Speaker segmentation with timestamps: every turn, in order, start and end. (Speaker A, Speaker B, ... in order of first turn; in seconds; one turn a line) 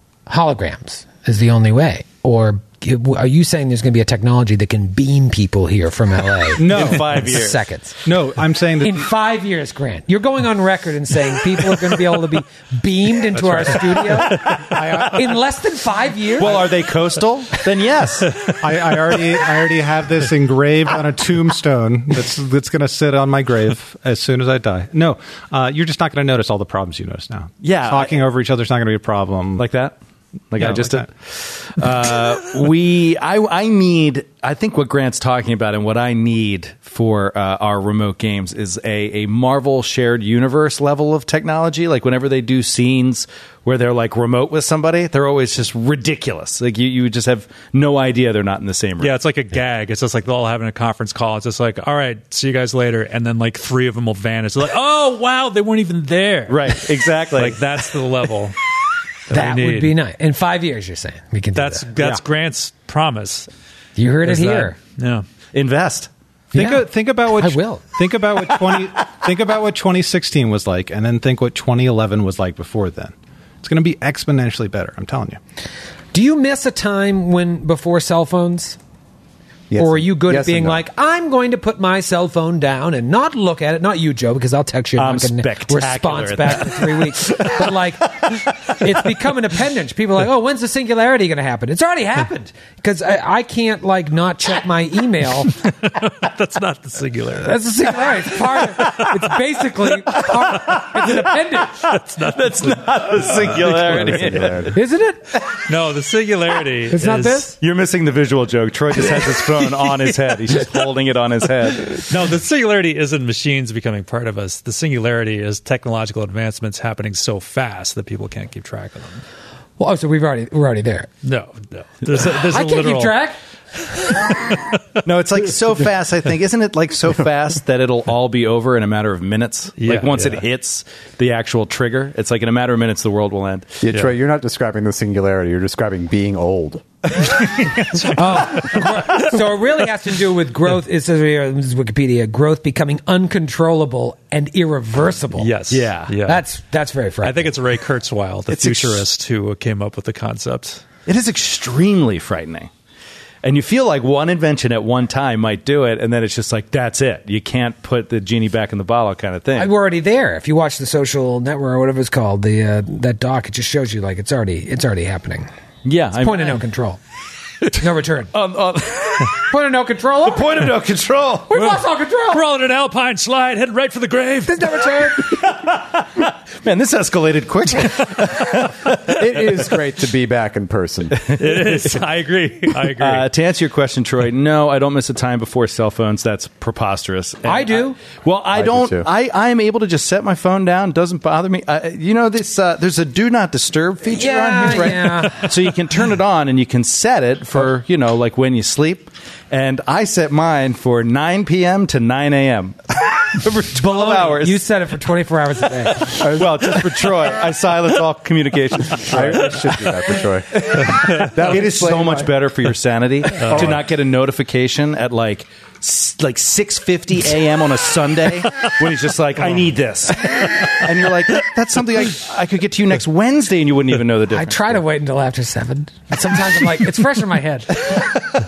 Speaker A: 0.3-8.0
Speaker B: 6.5-7.5
Speaker C: 6.7-7.6
Speaker B: 8.0-9.1
Speaker A: 8.8-16.6
Speaker C: 14.1-15.1
Speaker B: 14.6-15.2
Speaker C: 16.4-19.4
Speaker B: 18.6-29.6
Speaker C: 27.6-28.3
Speaker C: 29.6-29.9
Speaker C: 30.5-49.2
Speaker B: 30.6-31.1
Speaker D: 49.0-58.6
Speaker C: 56.5-58.1
Speaker D: 59.3-59.9
Speaker A: 59.3-61.9
Speaker D: 61.5-63.5
Speaker A: 64.0-64.8
Speaker D: 64.2-65.2
Speaker C: 65.5-66.1
Speaker A: 66.5-67.8
Speaker B: 66.5-75.4
Speaker A: 76.1-78.8
Speaker E: 79.7-80.8
Speaker A: 79.8-95.5
Speaker C: 85.0-87.7
Speaker C: 88.2-88.8
Speaker D: 95.8-97.5
Speaker A: 97.4-101.8
Speaker D: 98.8-99.1
Speaker C: 100.6-101.2
Speaker D: 101.8-104.6
Speaker C: 102.3-104.7
Speaker E: 103.4-104.8
Speaker A: 104.7-105.2
Speaker C: 105.3-105.7
Speaker D: 105.7-107.5
Speaker A: 106.9-107.6
Speaker C: 107.6-112.1
Speaker D: 112.0-119.2
Speaker A: 119.8-121.1
Speaker D: 121.2-123.2
Speaker A: 122.4-123.4
Speaker D: 123.9-124.8
Speaker C: 125.0-133.8
Speaker D: 129.8-130.4
Speaker E: 133.8-137.5
Speaker D: 137.4-139.1
Speaker A: 138.1-145.5
Speaker D: 145.3-146.4
Speaker C: 145.7-146.2
Speaker A: 146.2-147.5
Speaker D: 147.2-150.8
Speaker C: 148.5-149.0
Speaker C: 151.1-152.7
Speaker C: 153.4-159.7
Speaker A: 159.6-165.5
Speaker C: 165.8-166.6
Speaker A: 166.2-167.0
Speaker A: 167.7-168.3
Speaker C: 168.3-169.5
Speaker A: 169.5-170.7
Speaker C: 170.2-171.5
Speaker A: 171.5-172.4
Speaker D: 171.5-171.8
Speaker D: 172.3-174.8
Speaker A: 174.5-175.4
Speaker C: 175.2-179.6
Speaker E: 179.0-181.3
Speaker C: 181.1-182.0
Speaker D: 181.4-183.3
Speaker C: 182.9-204.6
Speaker A: 187.4-188.0
Speaker E: 188.5-189.1
Speaker A: 194.1-195.5
Speaker A: 203.7-206.2
Speaker C: 206.0-209.7
Speaker E: 206.2-206.7
Speaker E: 209.0-212.3
Speaker C: 210.5-224.8
Speaker E: 213.4-213.8
Speaker D: 213.4-213.7
Speaker A: 224.3-228.1